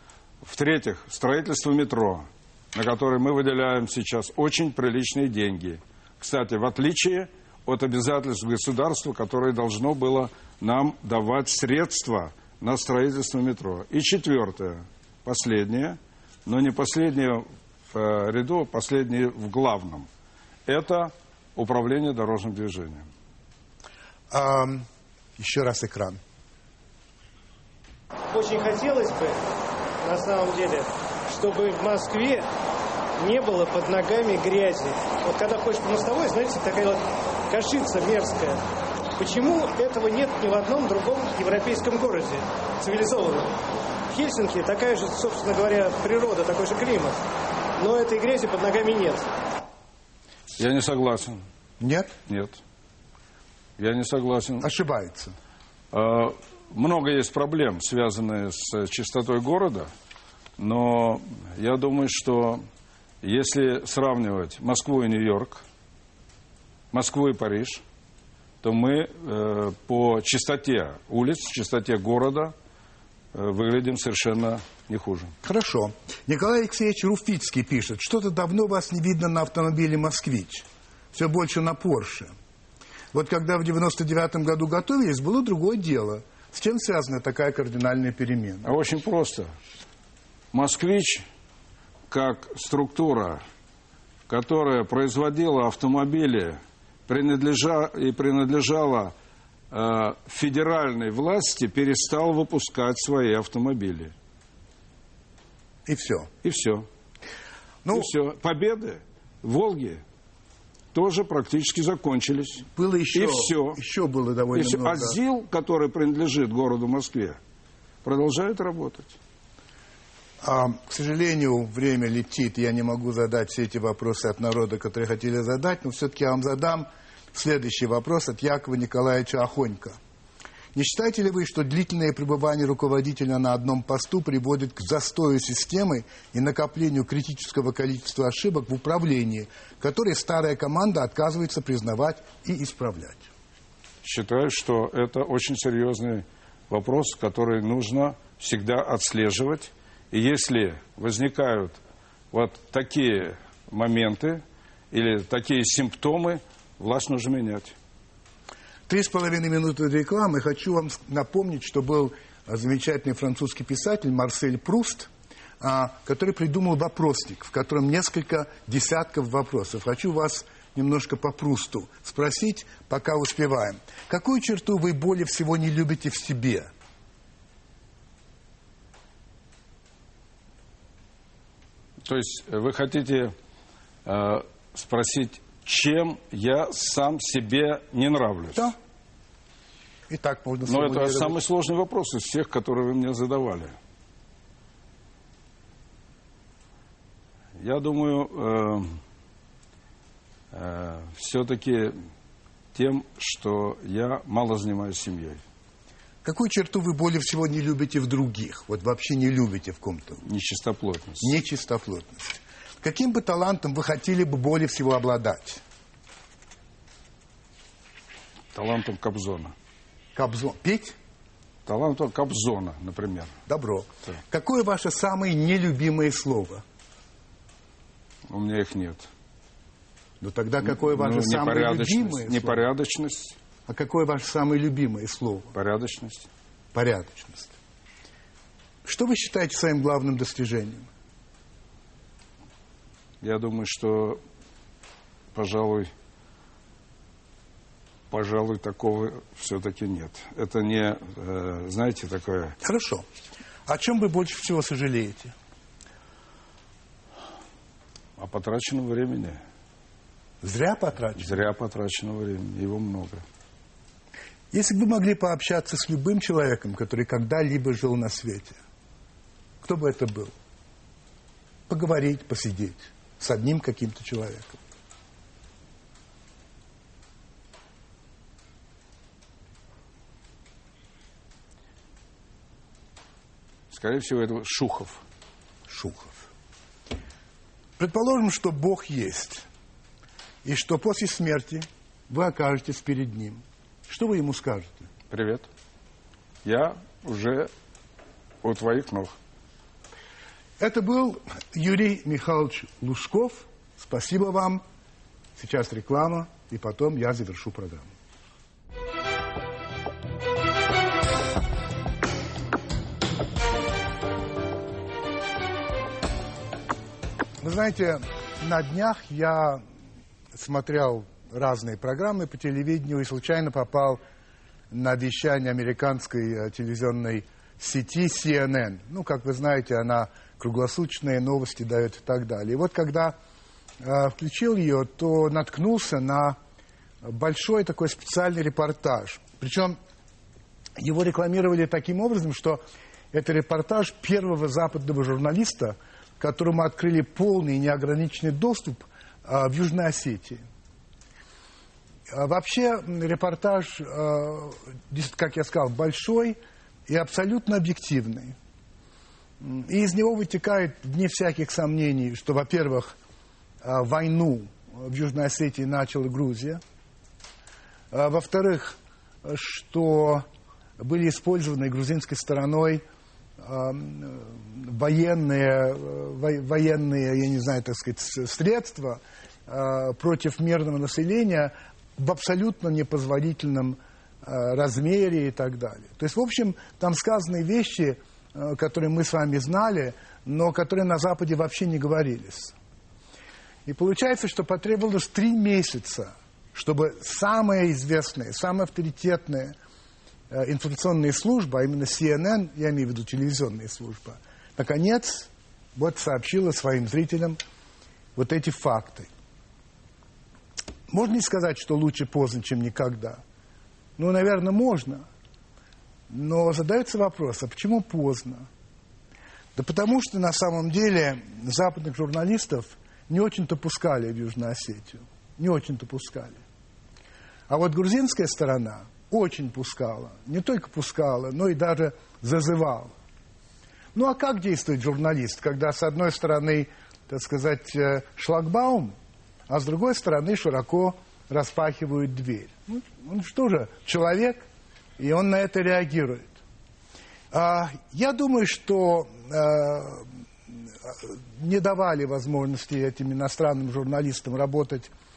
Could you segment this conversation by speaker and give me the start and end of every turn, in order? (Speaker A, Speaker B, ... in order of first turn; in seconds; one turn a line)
Speaker A: 0.4-20.1
Speaker A: 20.6-23.1
Speaker B: 24.3-24.9
Speaker B: 25.4-26.2
Speaker C: 28.3-29.4
Speaker C: 30.0-32.5
Speaker C: 33.2-38.6
Speaker C: 39.2-47.2
Speaker C: 47.8-49.3
Speaker A: 50.6-51.4
Speaker B: 51.8-52.1
Speaker A: 52.2-52.6
Speaker A: 53.8-54.7
Speaker B: 54.6-55.4
Speaker A: 55.9-59.9
Speaker A: 60.6-62.6
Speaker A: 63.2-65.6
Speaker A: 66.9-67.8
Speaker A: 68.6-72.5
Speaker A: 73.3-75.3
Speaker B: 75.4-82.3
Speaker B: 83.1-88.8
Speaker A: 88.6-89.5
Speaker A: 90.5-91.2
Speaker A: 92.1-93.4
Speaker A: 94.3-99.1
Speaker A: 99.7-104.1
Speaker B: 105.8-106.3
Speaker A: 106.4-106.8
Speaker B: 107.8-108.1
Speaker A: 107.9-110.0
Speaker A: 110.9-113.8
Speaker B: 112.7-115.2
Speaker A: 114.5-117.4
Speaker A: 118.0-119.2
Speaker B: 120.4-130.0
Speaker B: 130.7-143.3
Speaker A: 144.0-151.8
Speaker A: 152.3-157.7
Speaker B: 158.9-165.1
Speaker B: 165.6-176.7
Speaker A: 182.0-183.3
Speaker A: 184.0-188.7
Speaker B: 190.1-191.4
Speaker A: 190.6-193.7
Speaker A: 197.6-199.0
Speaker A: 200.5-202.1
Speaker A: 202.7-205.4
Speaker B: 206.2-210.2
Speaker A: 210.2-211.3
Speaker B: 211.2-215.6
Speaker A: 218.5-219.5
Speaker B: 220.1-221.0
Speaker A: 221.7-223.3
Speaker B: 223.5-226.6
Speaker A: 228.3-229.1
Speaker B: 230.2-232.7
Speaker A: 230.6-233.3
Speaker B: 233.7-235.5
Speaker A: 235.5-236.3
Speaker B: 236.7-237.5
Speaker B: 238.8-240.9
Speaker A: 243.2-244.2
Speaker A: 245.3-245.9
Speaker A: 248.1-252.6
Speaker B: 252.6-253.0
Speaker B: 253.7-255.3
Speaker A: 258.2-259.4
Speaker B: 260.4-261.4
Speaker A: 261.2-263.2
Speaker B: 264.5-268.6
Speaker B: 269.6-270.3
Speaker B: 271.7-274.6
Speaker A: 283.7-285.0
Speaker B: 285.7-286.2
Speaker B: 287.8-289.4
Speaker B: 290.4-294.9
Speaker A: 295.1-295.4
Speaker A: 296.4-297.5
Speaker A: 298.4-299.1
Speaker B: 300.6-304.6
Speaker B: 305.4-307.9
Speaker B: 317.4-319.6
Speaker B: 320.3-324.0
Speaker B: 324.7-333.1
Speaker B: 333.8-336.4
Speaker B: 337.0-339.8
Speaker B: 340.8-350.4
Speaker B: 352.1-358.4
Speaker B: 359.4-362.9
Speaker B: 363.6-366.6
Speaker B: 367.9-370.2
Speaker B: 370.8-372.8
Speaker B: 373.4-392.5
Speaker B: 393.6-399.6
Speaker B: 400.3-407.4
Speaker B: 408.1-409.1
Speaker B: 410.9-413.2
Speaker B: 414.0-415.1
Speaker B: 416.1-418.5
Speaker B: 419.5-426.4
Speaker B: 427.5-432.9
Speaker B: 433.9-438.9
Speaker B: 439.5-444.4
Speaker B: 445.0-446.3
Speaker B: 447.3-454.9